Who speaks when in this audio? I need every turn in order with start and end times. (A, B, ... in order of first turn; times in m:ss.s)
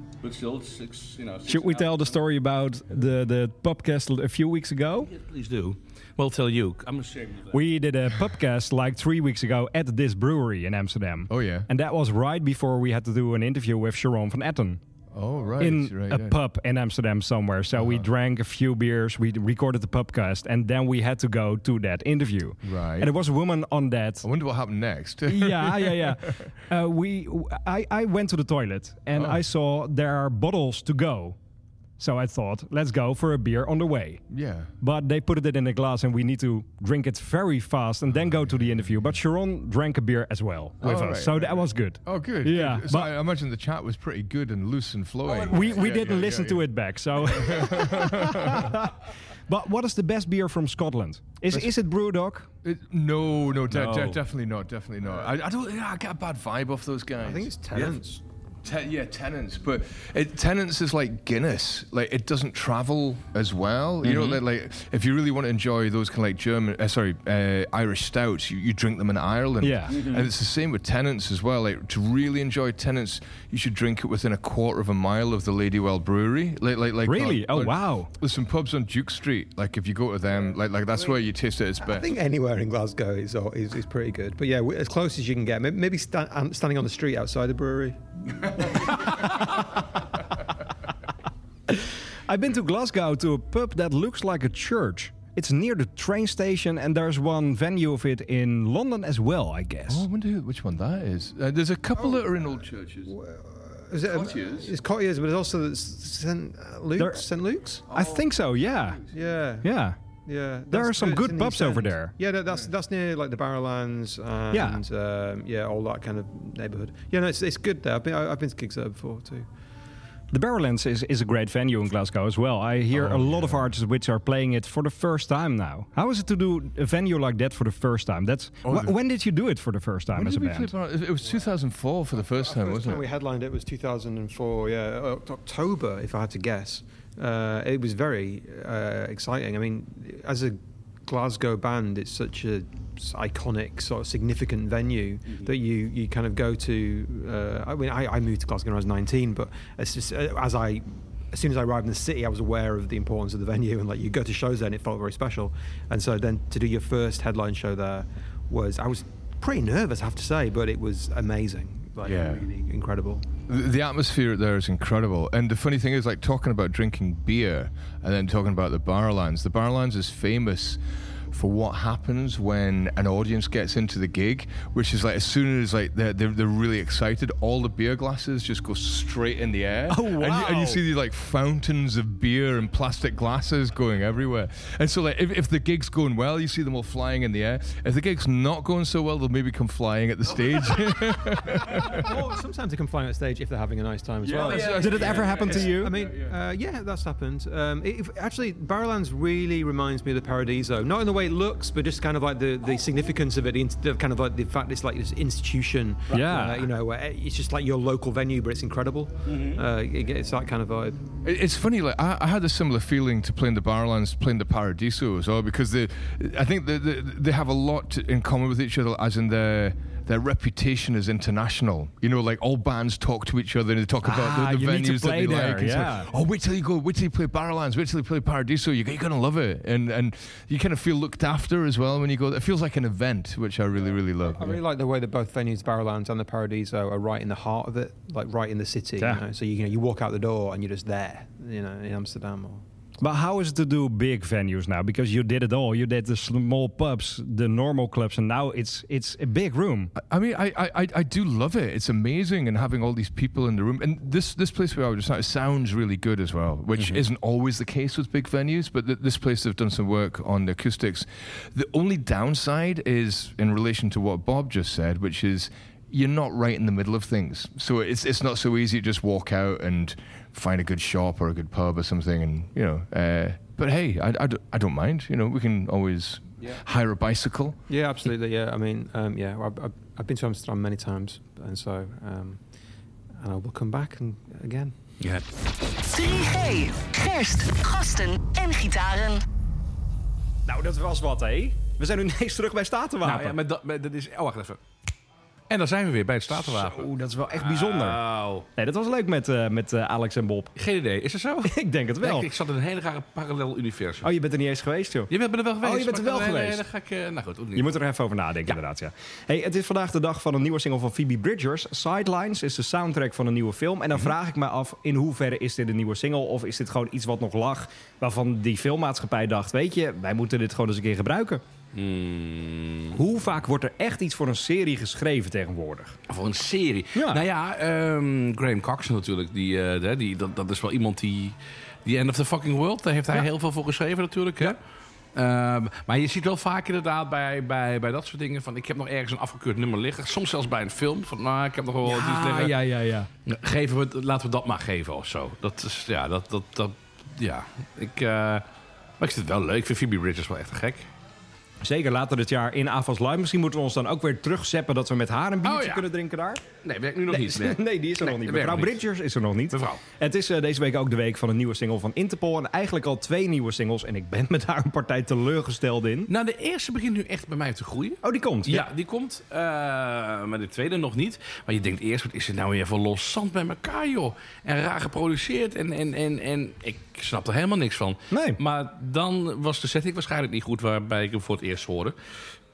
0:00.2-0:02.1 A
0:01.5-0:05.1 B
0:05.0-0:07.6 A
0:07.5-0:14.8 B
0:11.3-0:11.7 C
0:15.1-0:16.4 C
0:15.6-0:24.3 B
0:17.8-0:18.0 C
0:22.6-0:23.1 C
0:24.2-0:26.5 C
0:25.3-0:31.4 B
0:29.1-0:29.4 C
0:32.0-0:34.2 B
0:34.3-0:34.7 C
0:34.8-0:43.1 B
0:40.8-0:46.7 C
0:45.4-0:52.5 B
0:47.2-0:48.9 C
0:52.6-0:57.9 C
0:53.7-0:54.2 A
0:57.2-0:58.2 D
0:58.6-1:22.1 C
1:04.0-1:04.4 A
1:09.6-1:10.3 B
1:17.0-1:18.1 B
1:21.8-1:29.6 D
1:31.7-1:40.1 B
1:39.9-1:43.1 C
1:43.1-1:47.9 D
1:44.3-1:44.7 C
1:47.0-1:47.2 B
1:47.9-1:49.1 B
1:49.1-1:49.7 D
1:49.6-1:50.0 B
1:50.2-1:59.5 D
1:50.7-1:52.1 B
1:54.5-1:54.8 B
2:00.3-2:10.7 B
2:02.9-2:03.7 C
2:08.6-2:08.9 C
2:10.1-2:13.0 C
2:12.4-2:43.2 D
2:42.0-2:42.4 C
2:43.5-2:50.8 C
2:51.3-3:12.1 C
2:59.9-3:00.8 B
3:11.6-3:31.0 D
3:14.2-3:16.3 C
3:14.4-3:15.9 B
3:26.1-3:26.7 B
3:29.3-3:29.6 A
3:31.2-3:54.6 C
3:44.0-3:46.1 B
3:53.8-4:02.6 D
4:03.0-4:09.9 B
4:10.0-4:37.6 C
4:16.8-4:17.0 A
4:37.7-4:42.4 D
4:43.2-4:44.7 D
4:45.0-4:45.2 A
4:45.8-4:49.2 E
4:50.4-4:53.4 B
4:53.0-4:54.6 A
4:55.5-4:58.5 A
4:56.3-5:00.5 B
5:00.6-5:04.1 A
5:01.4-5:02.3 B
5:04.0-5:06.6 B
5:05.1-5:07.8 A
5:07.5-5:21.4 B
5:21.7-5:23.0 A
5:23.0-5:26.0 B
5:26.1-5:34.6 A
5:26.9-5:27.2 B
5:35.1-5:42.6 A
5:41.8-5:43.1 B
5:43.2-5:48.4 A
5:49.0-5:50.9 A
5:51.6-5:56.4 B
5:55.4-5:55.8 A
5:56.6-5:58.8 A
5:57.1-6:06.1 B
5:59.5-5:59.8 A
6:06.1-6:22.0 A
6:08.0-6:08.7 B
6:18.1-6:18.4 B